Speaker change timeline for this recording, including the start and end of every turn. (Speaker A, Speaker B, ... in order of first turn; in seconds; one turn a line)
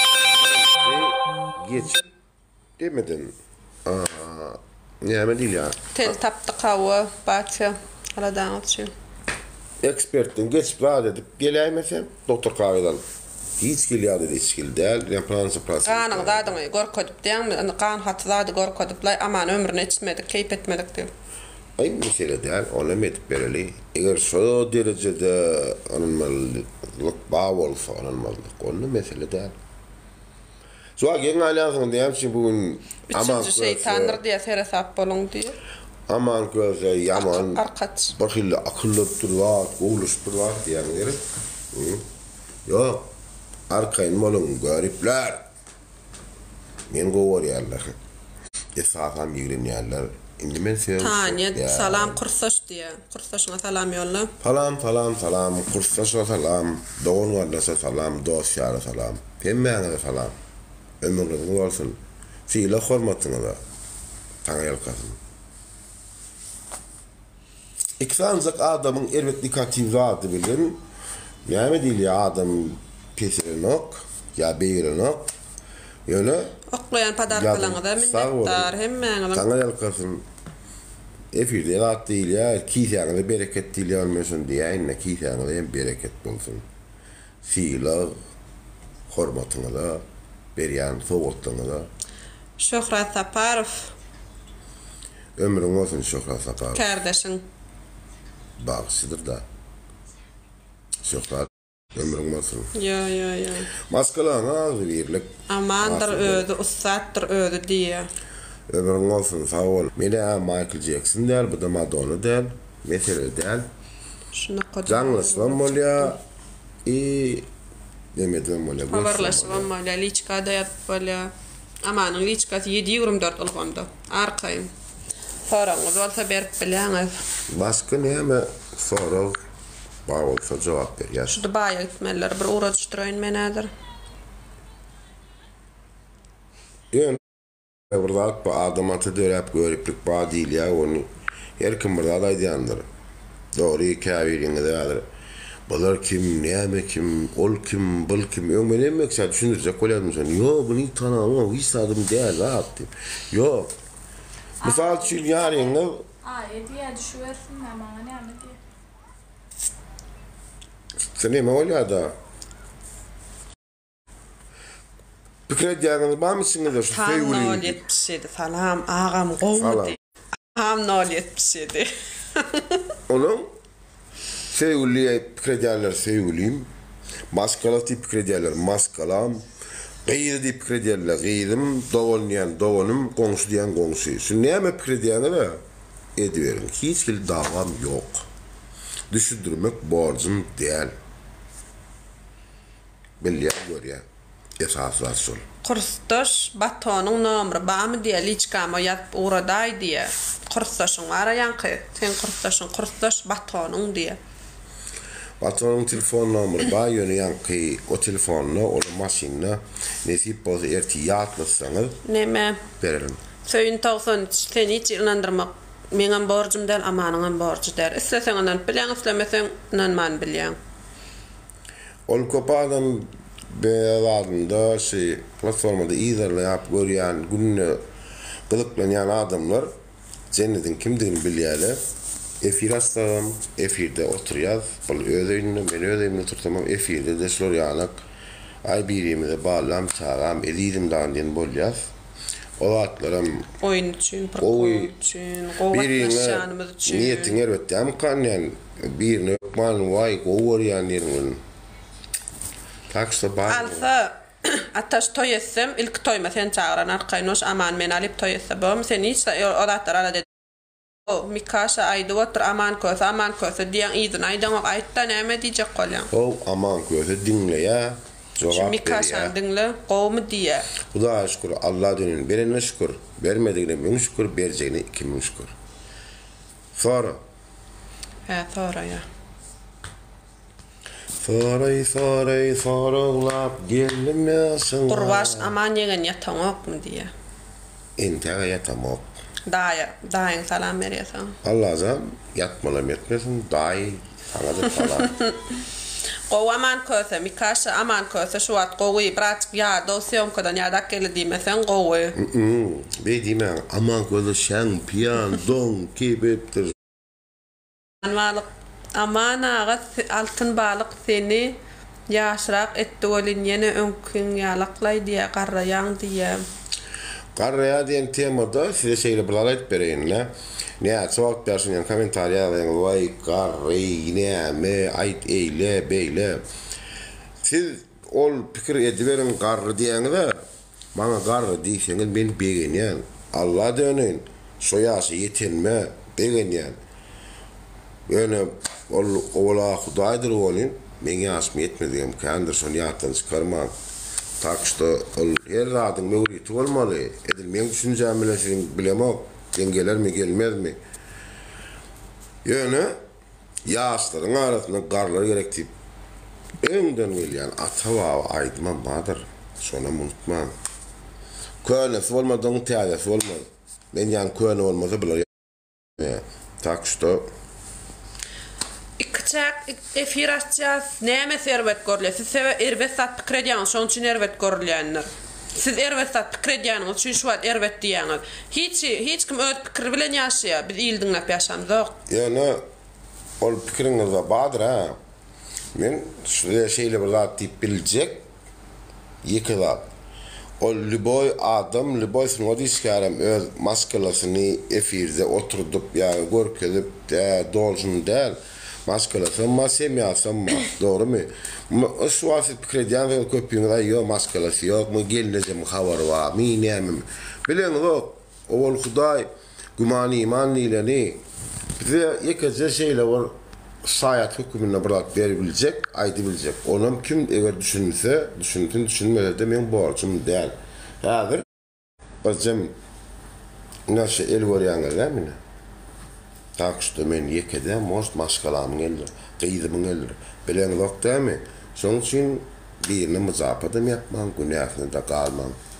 Speaker A: 0.2-2.0
Speaker A: 2.8-6.1
Speaker B: 5.9-8.9
Speaker A: 9.8-13.0
Speaker A: 13.6-16.6
Speaker B: 15.8-21.1
Speaker A: 21.8-29.5
Speaker A: 31.0-34.2
Speaker B: 33.1-35.6
Speaker A: 36.1-37.6
Speaker B: 37.1-38.1
Speaker A: 38.1-42.0
Speaker A: 42.6-43.1
Speaker A: 43.7-45.4
Speaker A: 46.9-48.0
Speaker A: 48.7-52.2
Speaker B: 51.0-54.3
Speaker A: 54.4-60.3
Speaker A: 61.0-63.6
Speaker A: 64.4-65.2
Speaker A: 68.0-70.8
Speaker A: 71.5-75.3
Speaker A: 76.0-76.6
Speaker B: 76.7-79.5
Speaker A: 77.3-78.7
Speaker A: 79.3-80.2
Speaker A: 81.3-86.7
Speaker A: 87.4-88.2
Speaker A: 89.1-90.0
Speaker A: 90.5-91.9
Speaker B: 92.6-93.9
Speaker A: 95.4-96.9
Speaker B: 96.7-97.4
Speaker A: 98.6-99.4
Speaker A: 101.0-102.7
Speaker B: 102.7-103.7
Speaker A: 103.8-106.5
Speaker B: 105.5-108.1
Speaker A: 108.7-113.7
Speaker B: 114.3-116.2
Speaker A: 114.9-116.2
Speaker A: 116.8-117.5
Speaker A: 118.1-119.7
Speaker B: 118.9-121.3
Speaker B: 121.8-124.7
Speaker B: 125.5-127.2
Speaker A: 127.5-129.4
Speaker A: 130.1-131.4
Speaker B: 131.3-133.7
Speaker A: 136.9-137.2
Speaker A: 137.9-142.8
Speaker A: 143.5-145.1
Speaker A: 145.7-153.7
Speaker A: 154.6-156.1
Speaker C: 156.3-158.6
Speaker A: 161.0-162.1
Speaker A: 165.5-167.8
Speaker B: 166.8-170.0
Speaker A: 169.6-169.9
Speaker B: 170.5-172.9
Speaker A: 173.1-173.5
Speaker A: 174.5-176.7
Speaker A: 177.3-179.4
Speaker A: 180.1-185.6
Speaker A: 186.2-188.2
Speaker A: 189.1-190.9
Speaker A: 193.2-194.0
Speaker A: 194.6-195.4
Speaker B: 195.6-204.2
Speaker A: 205.4-212.0
Speaker B: 212.0-212.7
Speaker A: 212.8-213.2
Speaker B: 213.4-220.6
Speaker A: 222.1-227.8
Speaker A: 228.5-229.7
Speaker A: 230.3-231.8
Speaker A: 232.4-238.0
Speaker A: 238.6-241.9
Speaker A: 242.6-243.5
Speaker B: 243.6-247.4
Speaker A: 244.4-244.9
Speaker A: 245.7-251.4
Speaker A: 252.9-253.9
Speaker B: 253.5-260.3
Speaker B: 261.1-266.1
Speaker A: 266.1-269.4
Speaker B: 268.5-270.7
Speaker A: 270.8-275.5
Speaker A: 276.7-277.2
Speaker B: 278.3-279.1
Speaker A: 281.2-285.5
Speaker B: 284.9-287.1
Speaker A: 288.0-289.1
Speaker B: 289.4-291.4
Speaker A: 291.4-295.1
Speaker B: 294.8-295.7
Speaker B: 296.3-302.1
Speaker A: 302.1-306.8
Speaker B: 308.0-311.6
Speaker B: 312.1-316.4
Speaker A: 317.4-326.4
Speaker A: 327.4-336.8
Speaker A: 338.1-343.7
Speaker A: 344.4-350.8
Speaker A: 352.4-352.9
Speaker A: 353.6-355.7
Speaker A: 356.6-360.5
Speaker A: 361.6-365.3
Speaker A: 365.9-367.3
Speaker B: 369.0-382.0
Speaker A: 382.1-382.6
Speaker A: 383.4-385.0
Speaker A: 385.7-388.2
Speaker A: 389.2-389.9
Speaker A: 390.6-411.2
Speaker A: 411.8-421.5
Speaker A: 422.2-422.8
Speaker A: 423.9-425.4
Speaker A: 426.6-435.6